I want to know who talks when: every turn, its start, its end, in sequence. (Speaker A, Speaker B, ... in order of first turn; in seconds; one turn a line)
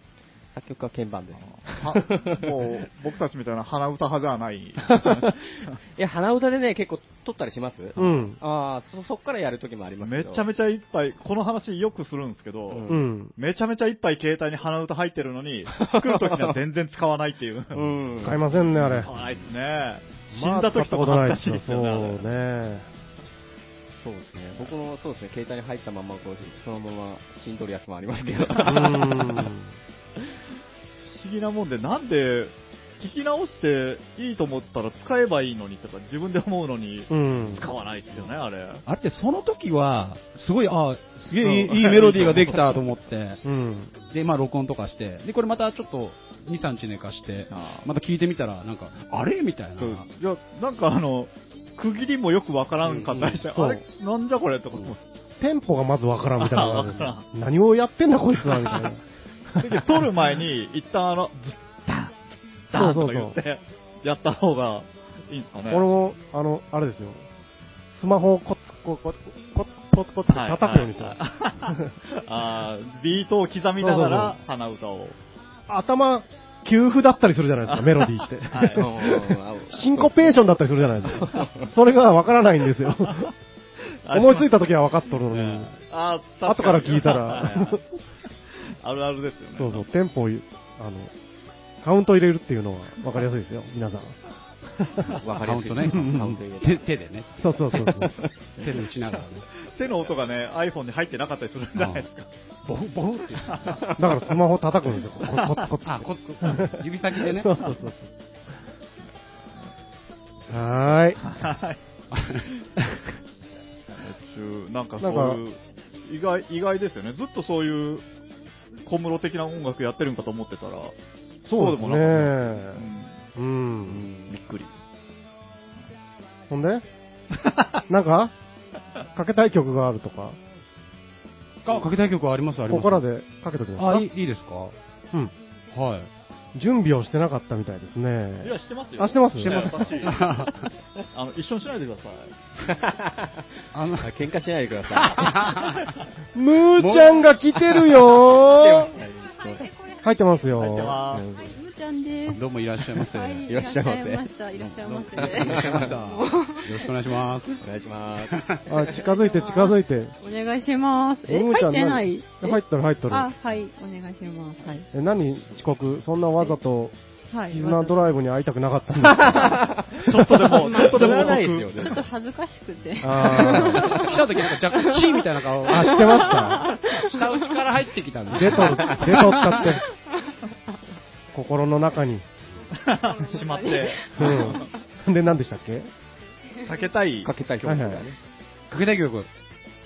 Speaker A: 0.5-2.9
Speaker B: 1.4-5.3
Speaker A: 4.8-10.4
Speaker C: 8.0-8.4
Speaker B: 10.0-22.2
Speaker A: 12.7-13.0
Speaker C: 12.9-13.3
Speaker A: 15.7-16.6
Speaker A: 17.7-18.4
Speaker C: 18.1-19.1
Speaker C: 20.3-22.9
Speaker A: 24.0-29.5
Speaker B: 28.1-29.1
Speaker C: 28.6-29.8
Speaker B: 31.0-38.8
Speaker C: 37.1-37.7
Speaker D: 38.9-43.4
Speaker B: 41.4-42.8
Speaker C: 43.4-43.9
Speaker D: 44.0-50.1
Speaker B: 47.5-47.9
Speaker B: 49.8-55.0
Speaker D: 52.9-53.4
Speaker C: 53.5-53.8
Speaker C: 55.4-60.0
Speaker B: 56.4-57.2
Speaker B: 59.6-65.9
Speaker C: 62.7-63.4
Speaker C: 65.7-67.3
Speaker C: 67.9-71.9
Speaker B: 70.3-75.2
Speaker C: 73.8-74.4
Speaker C: 75.7-83.3
Speaker B: 77.7-78.8
Speaker A: 78.7-80.4
Speaker A: 81.0-81.7
Speaker B: 84.0-84.7
Speaker C: 84.1-85.7
Speaker B: 85.3-87.8
Speaker C: 86.4-87.8
Speaker B: 88.8-89.9
Speaker C: 89.5-91.1
Speaker C: 91.8-94.2
Speaker C: 94.8-95.2
Speaker A: 95.2-96.7
Speaker D: 95.3-97.8
Speaker C: 95.8-96.2
Speaker C: 97.4-98.2
Speaker A: 98.0-99.2
Speaker D: 98.6-99.5
Speaker B: 99.6-102.3
Speaker D: 101.8-102.0
Speaker D: 102.6-103.8
Speaker B: 103.4-103.8
Speaker C: 103.9-108.1
Speaker D: 105.8-107.6
Speaker C: 110.5-111.2
Speaker B: 111.2-111.8
Speaker D: 112.1-112.5
Speaker B: 114.0-118.0
Speaker C: 115.0-115.4
Speaker B: 118.8-123.2
Speaker C: 121.5-124.1
Speaker A: 123.8-124.3
Speaker B: 124.3-124.7
Speaker C: 126.5-126.8
Speaker B: 127.3-127.7
Speaker C: 127.9-128.3
Speaker C: 129.1-130.4
Speaker D: 131.6-133.1
Speaker C: 132.7-134.1
Speaker D: 133.8-134.8
Speaker D: 135.7-136.1
Speaker C: 136.5-139.9
Speaker B: 138.4-140.5
Speaker D: 139.4-140.6
Speaker B: 141.1-142.4
Speaker A: 142.7-145.7
Speaker D: 143.7-144.2
Speaker D: 144.9-145.9
Speaker C: 146.3-148.9
Speaker D: 146.8-147.9
Speaker A: 148.3-149.7
Speaker E: 148.9-152.4
Speaker C: 150.0-151.1
Speaker B: 150.6-151.2
Speaker A: 151.1-151.5
Speaker D: 152.2-153.6
Speaker E: 153.0-156.9
Speaker A: 153.4-155.9
Speaker D: 154.8-157.6
Speaker A: 157.6-158.6
Speaker D: 158.2-158.6
Speaker C: 158.7-160.2
Speaker E: 158.9-164.9
Speaker C: 161.2-163.3
Speaker C: 164.9-166.9
Speaker E: 167.3-168.1
Speaker C: 167.5-170.5
Speaker A: 169.0-170.1
Speaker B: 170.0-172.0
Speaker A: 170.6-172.1
Speaker E: 171.8-177.7
Speaker C: 173.0-173.9
Speaker D: 173.3-179.6
Speaker A: 173.7-174.2
Speaker C: 175.7-176.8
Speaker C: 178.3-179.8
Speaker E: 179.4-180.3
Speaker C: 181.3-182.2
Speaker B: 182.8-184.7
Speaker E: 182.8-184.7
Speaker C: 184.1-185.9
Speaker E: 186.6-186.9
Speaker B: 186.6-187.3
Speaker A: 187.2-188.2
Speaker C: 187.6-188.1
Speaker D: 188.7-189.3